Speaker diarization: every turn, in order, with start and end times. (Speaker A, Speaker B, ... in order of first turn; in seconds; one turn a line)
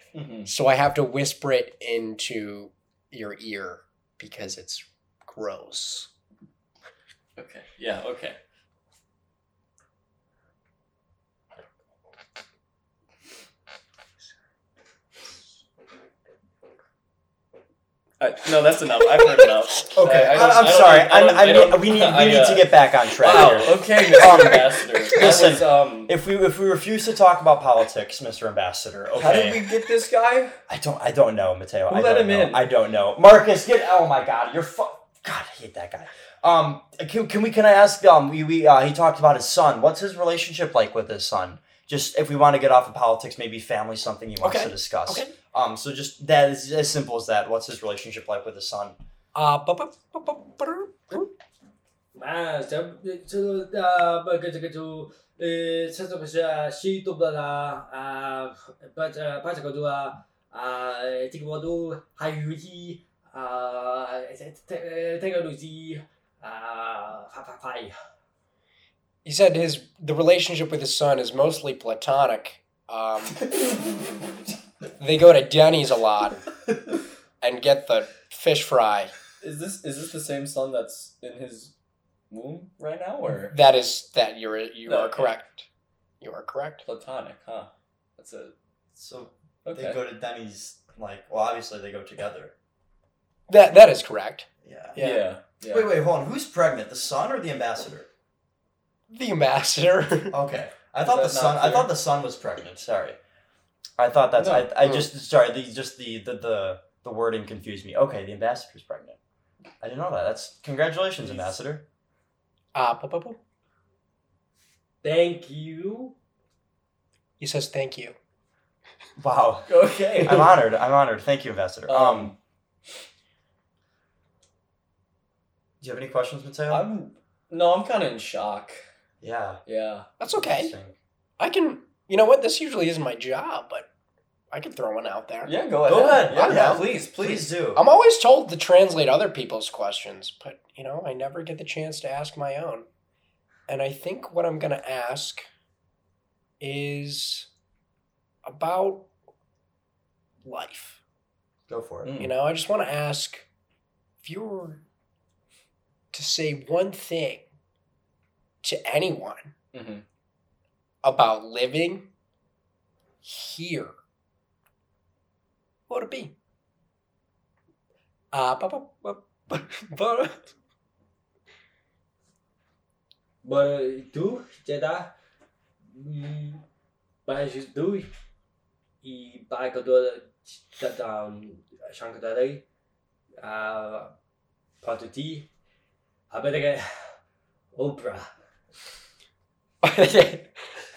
Speaker A: 0.1-0.5
Speaker B: 0.5-6.1
Speaker A: 7.4-8.4
Speaker A: 18.2-26.1
Speaker B: 19.2-20.3
Speaker C: 20.0-29.6
Speaker B: 24.2-24.5
Speaker A: 29.1-30.6
Speaker C: 30.7-49.0
Speaker A: 31.9-32.7
Speaker B: 44.4-45.3
Speaker B: 49.3-51.3
Speaker D: 52.1-68.0
Speaker B: 69.2-73.4
Speaker B: 75.0-76.4
Speaker B: 77.4-79.1
Speaker A: 79.4-81.7
Speaker A: 82.3-83.6
Speaker B: 83.5-85.7
Speaker A: 84.8-85.3
Speaker B: 86.2-86.8
Speaker A: 86.8-88.5
Speaker C: 89.0-92.5
Speaker A: 89.7-90.0
Speaker B: 93.5-95.3
Speaker C: 94.6-95.0
Speaker A: 95.0-95.9
Speaker C: 95.7-98.1
Speaker B: 99.1-100.4
Speaker C: 100.3-103.2
Speaker A: 101.0-101.9
Speaker C: 104.0-109.2
Speaker A: 104.4-104.7
Speaker B: 104.8-105.1
Speaker C: 109.8-111.8
Speaker A: 111.2-111.5
Speaker B: 112.7-113.4
Speaker D: 115.0-116.2
Speaker B: 117.4-118.2
Speaker C: 119.2-122.3
Speaker A: 119.7-120.6
Speaker A: 121.9-122.3
Speaker C: 125.8-126.8
Speaker A: 126.7-128.8
Speaker C: 129.2-129.6
Speaker A: 129.7-130.1
Speaker B: 130.2-130.7
Speaker C: 130.3-130.9
Speaker B: 131.4-133.9
Speaker B: 134.5-135.6
Speaker A: 135.4-137.5
Speaker C: 135.9-137.8
Speaker B: 136.2-136.8
Speaker B: 137.8-142.9
Speaker B: 143.7-145.4
Speaker B: 146.6-147.5
Speaker B: 148.5-149.1
Speaker B: 150.4-151.0
Speaker C: 151.7-152.1
Speaker A: 152.0-152.3
Speaker B: 152.2-153.4
Speaker B: 154.2-154.8
Speaker B: 156.1-157.5
Speaker B: 158.6-159.5
Speaker A: 159.7-160.0
Speaker B: 161.0-162.1
Speaker B: 163.2-163.9
Speaker B: 165.9-166.3
Speaker B: 168.3-170.5
Speaker D: 173.4-175.1
Speaker D: 175.9-176.6
Speaker D: 177.3-178.1
Speaker D: 179.0-182.6
Speaker D: 183.4-184.1
Speaker D: 184.8-185.5
Speaker D: 186.3-186.9
Speaker D: 187.8-188.3
Speaker B: 189.8-190.6